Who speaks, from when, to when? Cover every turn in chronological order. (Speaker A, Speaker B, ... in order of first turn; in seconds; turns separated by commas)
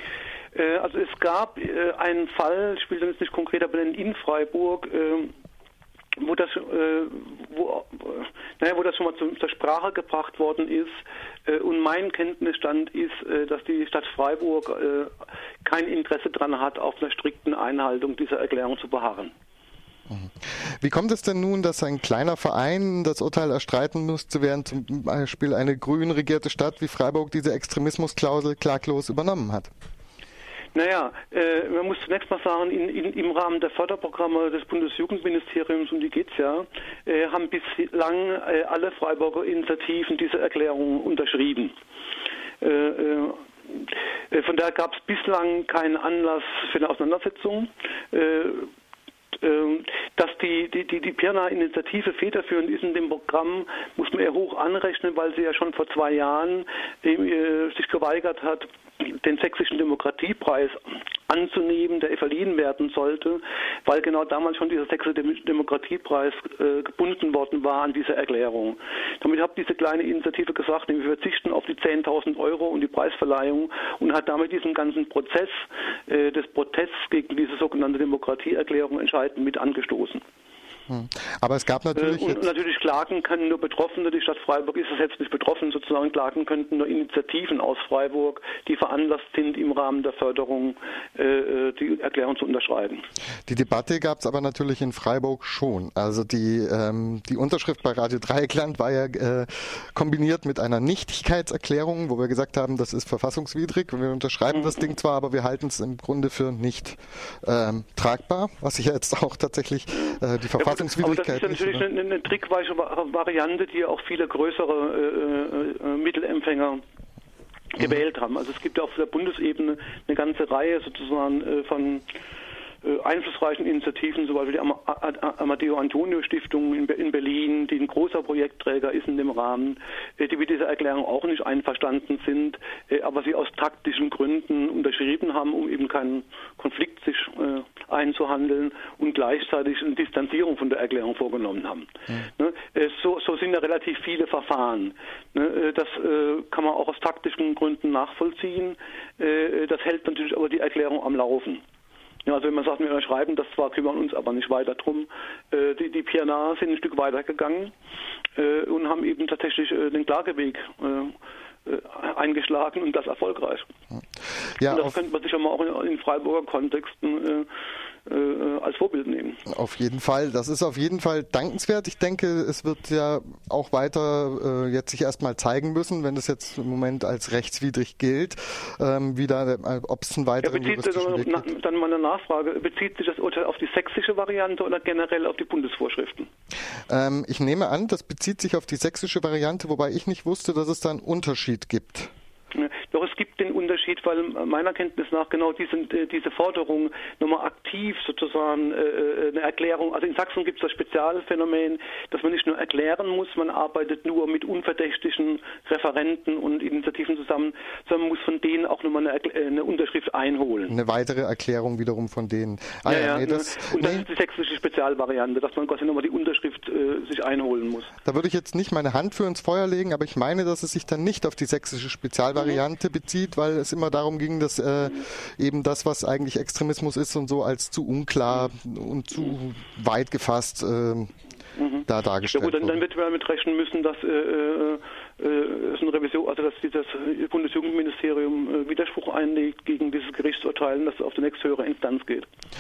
Speaker A: 0.6-5.3, Speaker A: 6.2-15.1, Speaker A: 15.6-19.3, Speaker B: 20.1-29.7, Speaker A: 30.7-41.7, Speaker A: 42.6-48.7, Speaker A: 49.4-80.2, Speaker B: 80.9-82.5, Speaker A: 82.0-93.0, Speaker B: 93.5-111.8, Speaker A: 110.0-116.8, Speaker A: 117.7-122.0, Speaker A: 122.8-151.6, Speaker A: 152.2-157.7, Speaker A: 158.4-161.2, Speaker A: 161.7-163.7, Speaker B: 164.6-164.9, Speaker A: 164.7-167.5, Speaker A: 168.1-169.4, Speaker B: 169.5-181.5, Speaker A: 180.4-186.3, Speaker B: 186.9-192.1, Speaker A: 192.5-210.7, Speaker B: 210.7-214.1, Speaker A: 212.9-217.9, Speaker B: 218.1-231.1, Speaker A: 222.4-222.6, Speaker A: 231.6-242.3, Speaker B: 231.9-232.8